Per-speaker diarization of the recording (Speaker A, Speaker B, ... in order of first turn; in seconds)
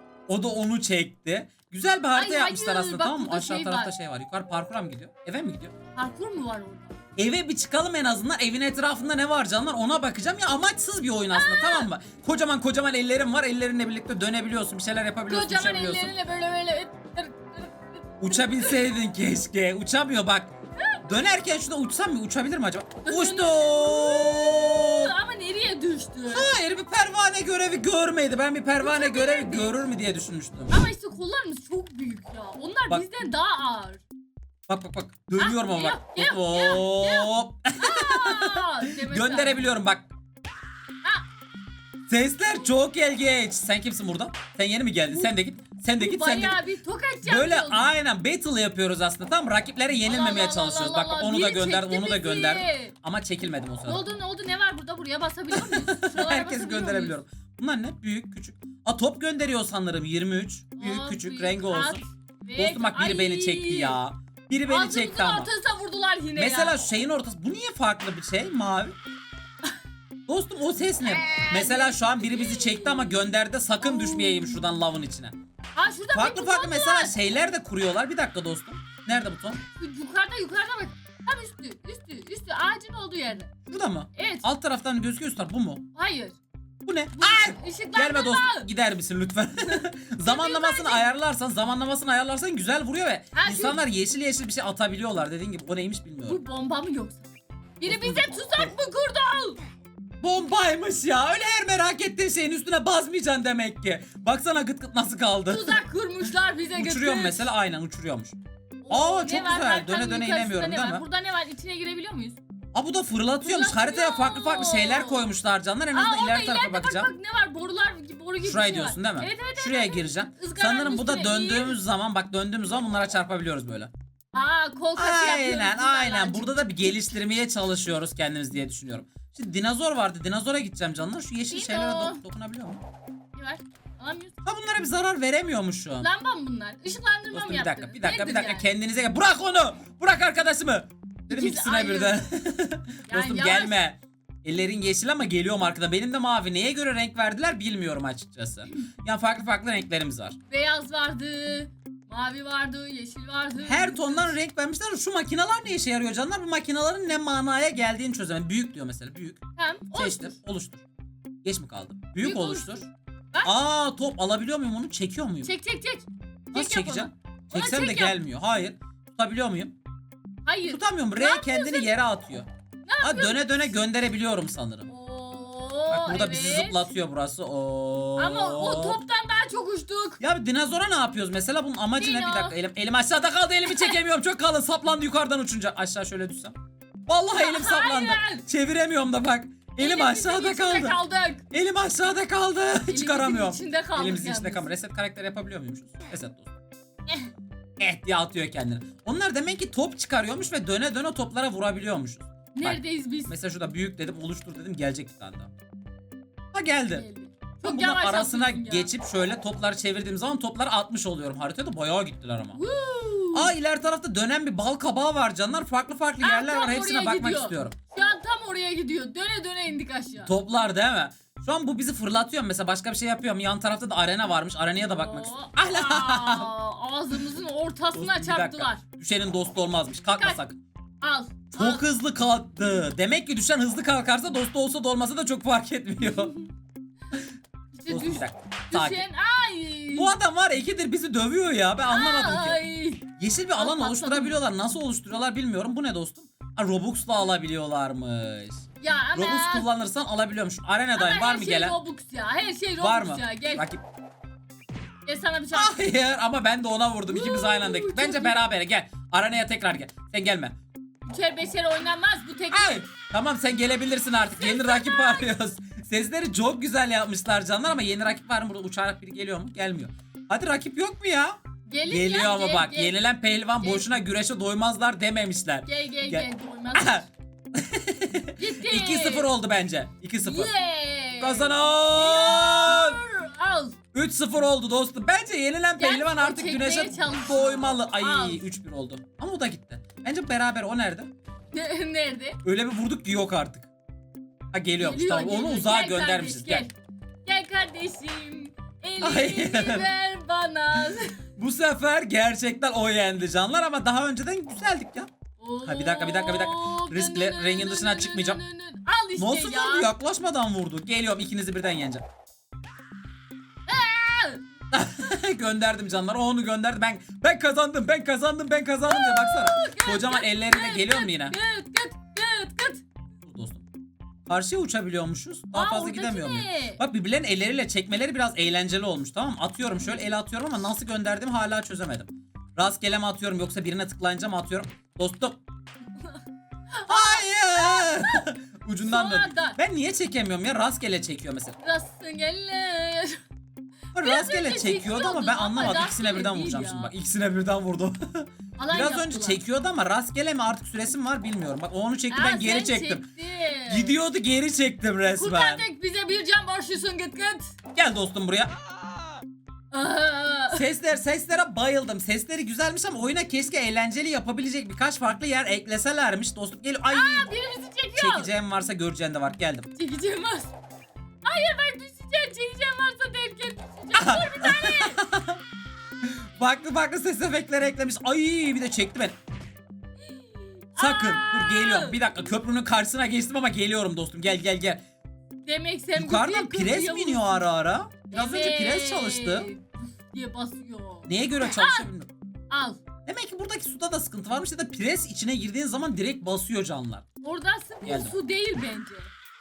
Speaker A: 0.3-5.7, 7.2-16.1, 18.2-20.5, 21.0-25.1, 26.3-30.8, 34.7-40.1, 42.1-46.6, 47.2-54.0, 55.5-62.0, 62.5-65.5, 66.4-69.0, 70.3-75.3, 76.1-79.6, 83.7-85.8, 86.8-96.4, 97.8-98.7, 100.2-105.8, 106.7-108.4, 108.9-111.0, 112.7-117.1, 118.4-123.9, 125.0-132.8, 134.4-136.1, 137.3-150.4, 153.7-159.4, 159.9-160.8, 161.4-162.9, 163.4-165.5, 166.5-169.7, 170.7-172.5, 173.0-174.9, 175.9-179.0, 180.2-186.6, 187.1-191.0, 191.5-196.5, 197.8-205.5, 206.5-207.1, 207.6-212.6, 213.3-217.8, 220.2-226.5, 227.9-230.6, 231.5-236.3, 237.9-239.1, 239.9-242.6, 243.2-251.8, 252.8-253.8, 255.5-260.6, 262.5-280.5, 281.2-283.0, 283.9-291.1, 292.4-293.7, 294.5-296.7, 299.0-299.9, 301.4-305.1, 305.6-308.4, 309.2-312.0, 314.7-321.4, 323.2-323.6, 324.3-335.4, 336.9-341.6, 343.9-353.1, 353.7-355.6, 357.7-358.6, 360.5-367.3, 368.0-369.7, 373.9-375.4, 376.0-379.1, 380.8-384.8, 385.9-389.5, 391.1-392.1, 393.1-397.1, 397.8-398.1
Speaker B: 2.1-3.9, 6.0-7.0, 11.3-11.9, 15.3-18.8, 20.8-21.2, 23.1-26.6, 28.8-29.8, 30.7-34.0, 35.4-39.7, 45.1-45.3, 46.0-47.9, 50.0-52.9, 53.9-57.2, 60.8-64.0, 64.7-66.8, 71.0-73.3, 73.8-74.6, 75.8-77.1, 79.8-83.5, 84.1-84.5, 86.0-86.4, 87.2-88.7, 89.7-91.1, 93.3-93.8, 96.3-99.6, 105.5-107.5, 108.8-112.4, 113.4-115.3, 115.9-121.8, 124.3-127.1, 131.5-132.2, 133.3-134.3, 136.0-138.7, 141.3-142.2, 143.1-143.8, 150.5-154.4, 159.6-160.3, 162.2-163.5, 165.4-168.2, 170.4-171.9, 172.8-173.6, 174.9-176.9, 178.2-180.2, 182.0-182.6, 183.7-184.0, 187.3-188.4, 189.8-191.4, 192.9-194.7, 202.5-203.3, 206.9-208.9, 212.5-213.5, 216.2-220.3, 224.8-228.8, 231.0-231.8, 236.0-236.5, 237.7-240.1, 241.9-243.0, 243.6-244.4, 248.8-249.7, 250.9-253.7, 255.1-255.8, 257.1-258.4, 261.1-262.9, 264.2-265.3, 271.7-273.0, 273.6-273.9, 275.6-277.1, 278.4-279.3, 280.2-283.8, 285.8-288.5, 291.5-292.4, 294.8-296.7, 297.2-301.2, 305.4-309.9, 313.7-314.4, 318.9-322.8, 325.5-326.8, 336.8-338.3, 338.8-339.6, 341.6-343.2, 344.0-346.9, 348.6-349.4, 352.1-353.9, 355.1-357.5, 359.7-360.7, 366.9-368.3, 369.8-370.5, 371.2-375.0, 380.0-382.0, 385.4-387.5, 388.1-391.9, 392.5-392.8, 397.2-399.1